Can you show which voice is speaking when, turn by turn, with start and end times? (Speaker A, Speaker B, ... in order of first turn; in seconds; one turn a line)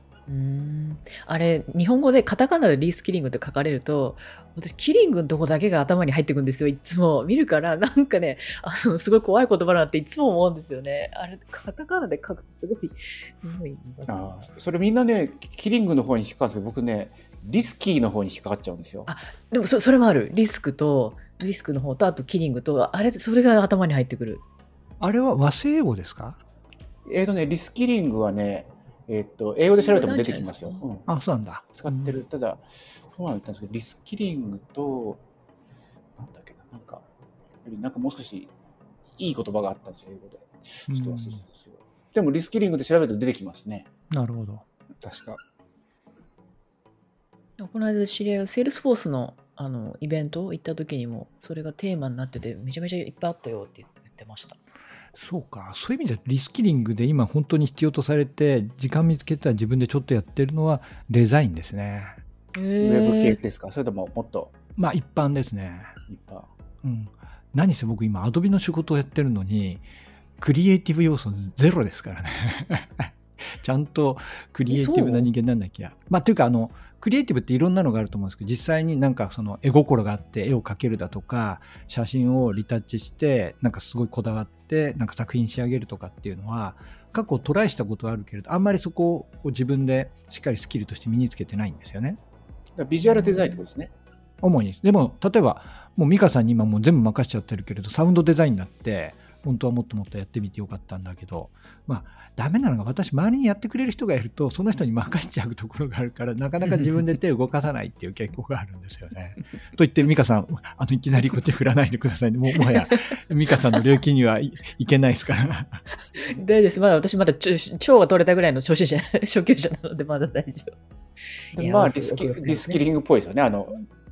Speaker A: 0.3-14.5
Speaker B: 14.1-19.1
Speaker A: 19.1-24.4
Speaker C: 25.0-26.4
Speaker B: 27.1-31.1
Speaker A: 29.8-30.9
Speaker C: 31.1-32.2
Speaker B: 31.7-35.2
Speaker B: 36.2-37.0
Speaker B: 37.6-38.5
Speaker B: 39.2-43.9
Speaker C: 40.9-41.4
Speaker C: 44.1-44.6
Speaker B: 45.0-45.4
Speaker A: 47.6-54.6
Speaker C: 55.1-62.2
Speaker A: 62.5-63.4
Speaker B: 62.8-64.5
Speaker C: 64.8-66.0
Speaker B: 66.1-66.5
Speaker C: 66.8-69.9
Speaker C: 70.4-92.2
Speaker B: 74.7-75.3
Speaker B: 92.8-93.9
Speaker A: 93.0-93.6
Speaker C: 94.4-115.8
Speaker A: 106.6-107.0
Speaker A: 116.2-120.8
Speaker A: 121.5-122.8
Speaker B: 121.6-123.8